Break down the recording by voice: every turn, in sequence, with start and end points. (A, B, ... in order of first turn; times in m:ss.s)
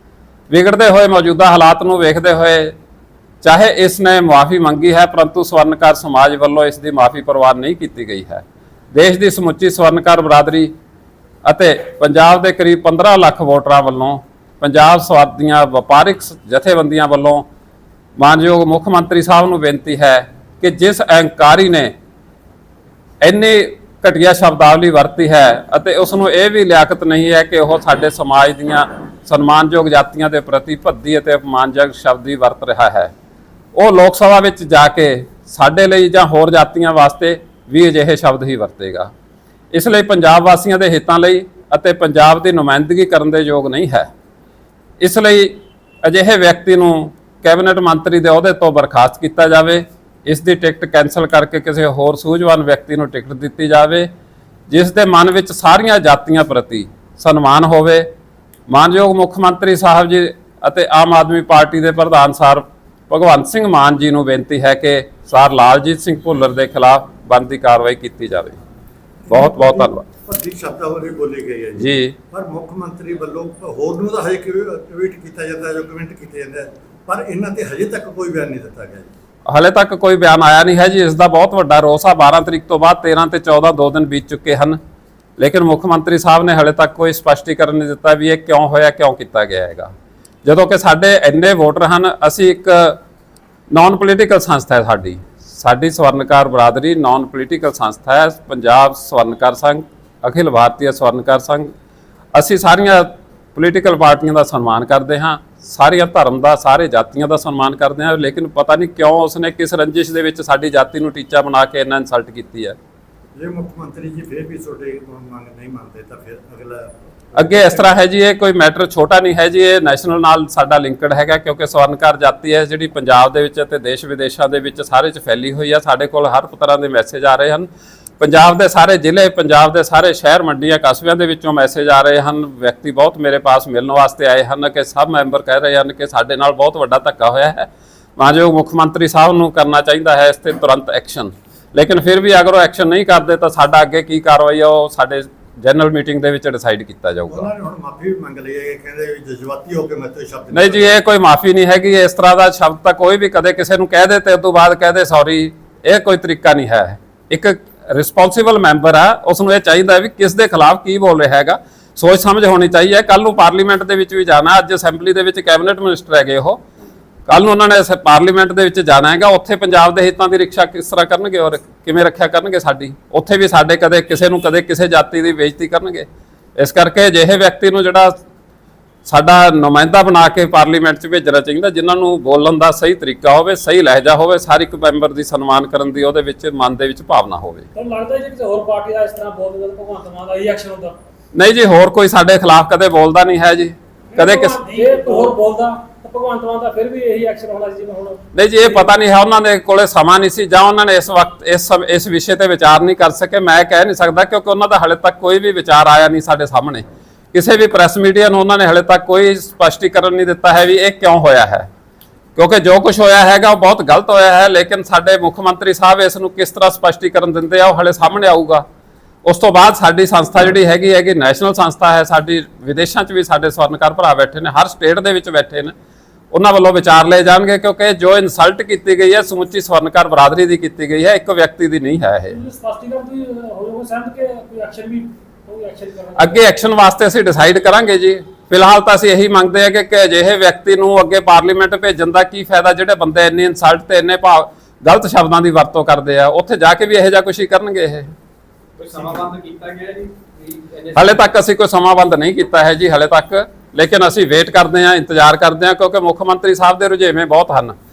0:00.5-0:02.8 A
0:03.4-0:10.7 A
0:11.4-0:17.5 A
0:18.2-0:22.0 A
0:23.2-0:33.1 A
0:33.8-0:39.1 A
0:39.7-0:44.1 A
0:45.0-0:54.1 A
0:54.7-0:58.1 A
0:58.7-1:08.6 A
1:09.3-1:19.1 B
1:09.3-1:10.0 A
1:11.8-1:12.2 A
1:19.5-1:24.8 A
1:25.4-1:29.9 A
1:30.4-1:33.0 A
1:33.7-1:41.7 A
1:42.4-1:52.8 A
1:53.4-1:57.9 B
1:57.4-2:27.5 A
2:27.3-2:31.0 B
2:30.5-2:46.6 A
2:47.3-2:58.2 A
2:59.1-3:07.7 A
3:07.8-3:11.0 C
3:11.3-3:14.6 A
3:14.1-3:18.2 C
3:18.3-3:31.7 A
3:32.4-3:38.6 A
3:39.2-3:45.7 A
3:46.3-3:52.4 A
3:52.3-3:56.4 C
3:56.2-4:08.2 A
4:08.8-4:11.1 D
4:10.9-4:17.8 A